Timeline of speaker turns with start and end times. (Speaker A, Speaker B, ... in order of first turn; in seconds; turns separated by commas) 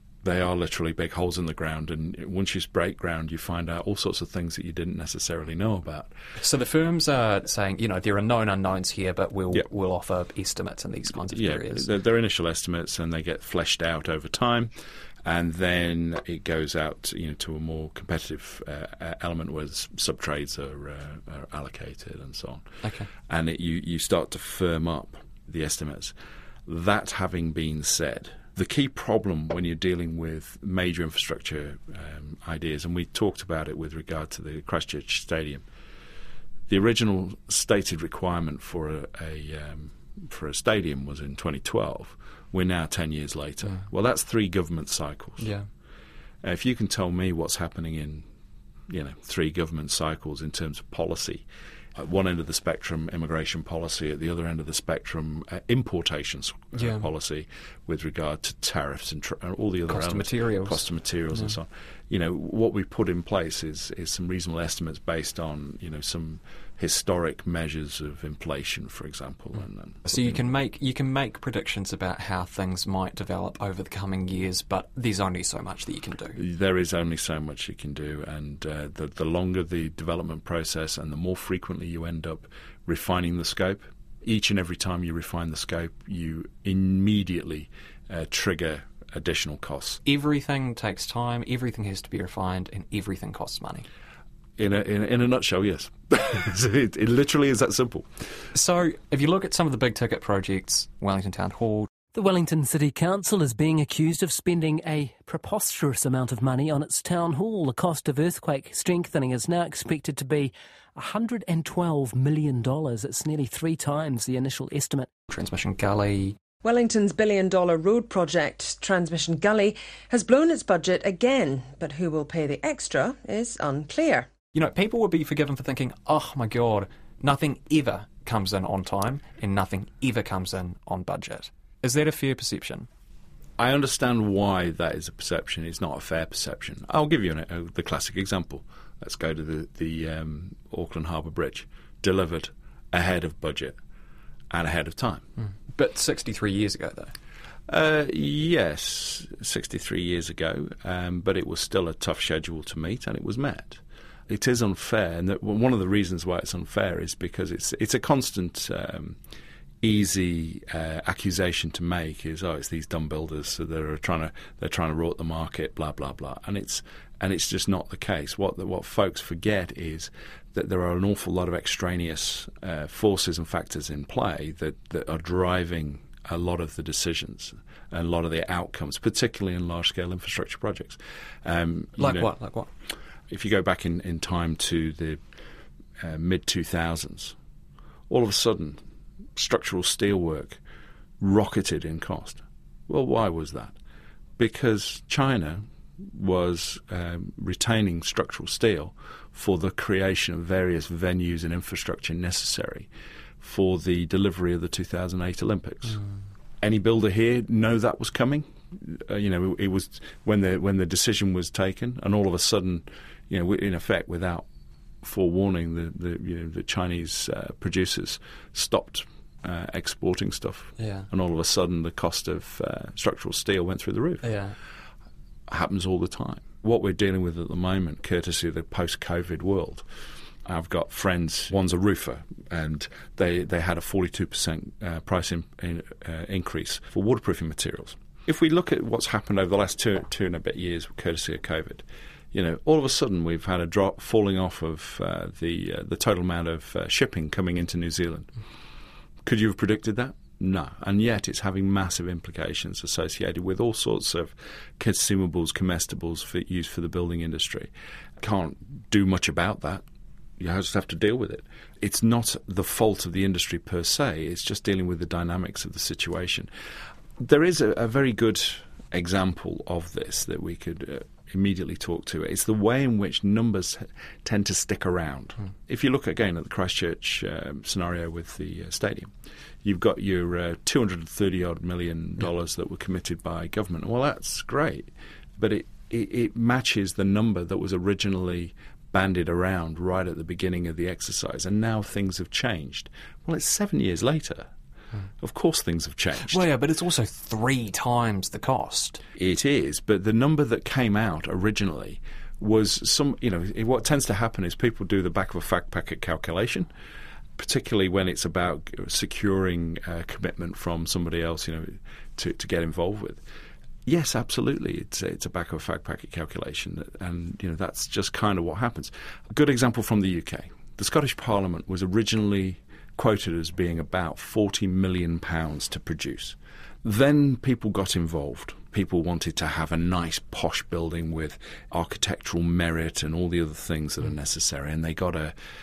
Speaker A: 0.2-6.1, Speaker B: 6.4-11.9, Speaker A: 11.2-14.7, Speaker A: 15.2-26.1, Speaker A: 26.7-35.6, Speaker A: 36.7-45.5, Speaker B: 45.4-45.7, Speaker A: 46.4-48.3, Speaker A: 48.9-70.5, Speaker B: 56.8-57.1, Speaker B: 59.9-61.5, Speaker B: 70.0-76.4, Speaker A: 76.3-90.0, Speaker B: 90.0-93.9, Speaker A: 94.6-98.1, Speaker B: 98.5-101.9, Speaker C: 102.1-115.1, Speaker B: 115.3-116.4, Speaker D: 116.6-124.3, Speaker B: 124.5-132.9, Speaker A: 133.6-143.8, Speaker A: 144.5-145.3, Speaker B: 145.4-147.1, Speaker A: 147.7-159.2, Speaker A: 159.8-182.3, Speaker B: 182.0-182.7, Speaker A: 183.3-185.2, Speaker A: 186.0-187.4, Speaker A: 188.1-188.8, Speaker A: 189.4-190.6, Speaker A: 191.2-193.8, Speaker A: 194.4-202.9, Speaker A: 203.4-206.0, Speaker A: 206.6-214.5, Speaker A: 215.0-224.3, Speaker B: 220.8-221.1, Speaker B: 224.2-224.6, Speaker A: 225.5-229.9, Speaker A: 230.4-248.3, Speaker A: 249.2-259.8, Speaker A: 260.4-266.5, Speaker A: 267.2-279.1, Speaker A: 279.6-294.5, Speaker A: 295.2-296.5, Speaker B: 296.3-299.0, Speaker A: 299.2-306.7, Speaker A: 307.4-313.2, Speaker A: 313.9-335.4